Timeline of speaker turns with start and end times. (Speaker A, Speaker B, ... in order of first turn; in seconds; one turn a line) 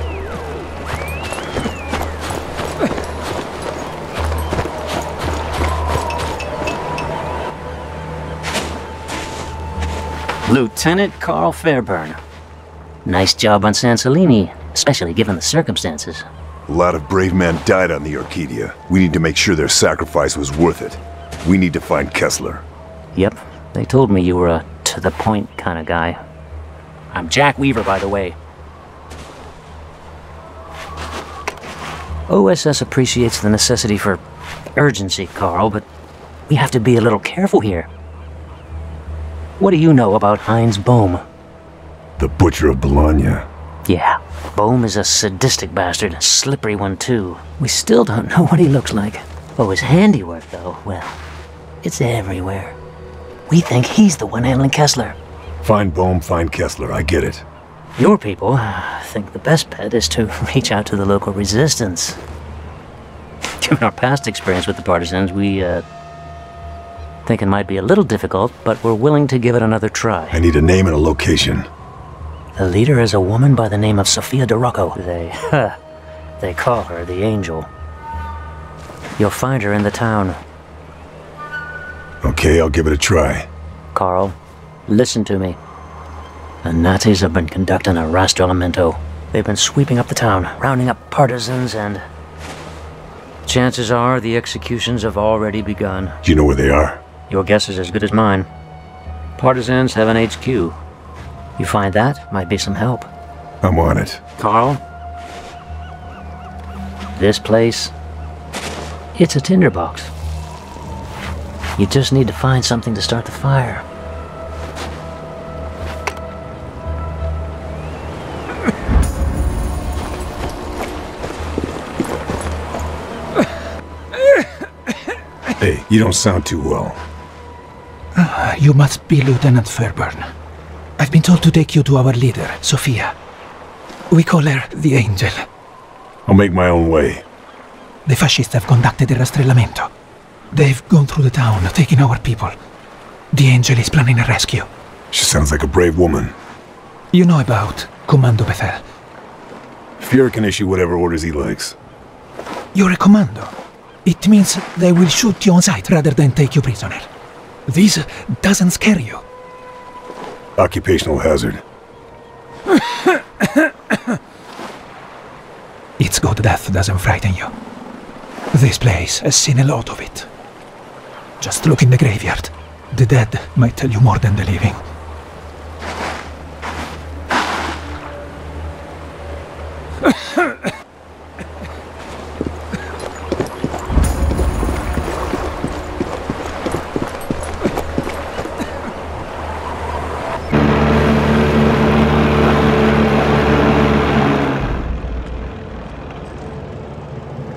Speaker A: 10.4-12.2
Speaker A: 13.0-16.3
Speaker B: 16.7-22.6
Speaker A: 23.1-26.2
Speaker A: 27.1-28.4
Speaker A: 32.3-34.2
Speaker A: 34.8-35.9
Speaker A: 36.5-37.9
Speaker A: 39.6-41.2
Speaker B: 42.2-43.5
Speaker A: 43.9-51.2
Speaker A: 51.8-52.8
Speaker A: 53.5-55.2
Speaker B: 55.6-57.5
Speaker A: 58.0-62.2
Speaker A: 63.6-65.8
Speaker A: 67.2-70.4
Speaker B: 70.3-71.7
Speaker A: 72.5-75.8
Speaker A: 76.4-77.7
Speaker A: 79.2-80.4
Speaker B: 82.2-83.5
Speaker A: 83.9-84.3
Speaker A: 84.9-85.6
Speaker A: 86.6-92.0
Speaker A: 93.5-96.2
Speaker B: 96.2-97.0
Speaker A: 97.3-98.5
Speaker A: 99.4-100.8
Speaker A: 101.6-103.1
Speaker B: 103.6-104.2
Speaker A: 104.4-104.8
Speaker A: 107.1-107.9
Speaker A: 109.1-110.1
Speaker A: 111.8-113.8
Speaker B: 125.6-127.0
Speaker C: 128.1-130.3
Speaker C: 131.0-133.1
Speaker C: 134.1-135.5
Speaker B: 136.2-137.2
Speaker C: 138.1-139.9
Speaker C: 140.5-142.6
Speaker C: 143.3-144.7
Speaker B: 145.1-146.3
Speaker C: 147.1-148.8
Speaker B: 150.0-151.8
Speaker C: 152.7-153.5
Speaker C: 154.0-157.1
Speaker C: 157.7-159.2
Speaker B: 160.6-161.6
Speaker C: 162.7-164.0
Speaker C: 166.0-167.5
Speaker C: 168.5-170.3
Speaker C: 171.4-174.8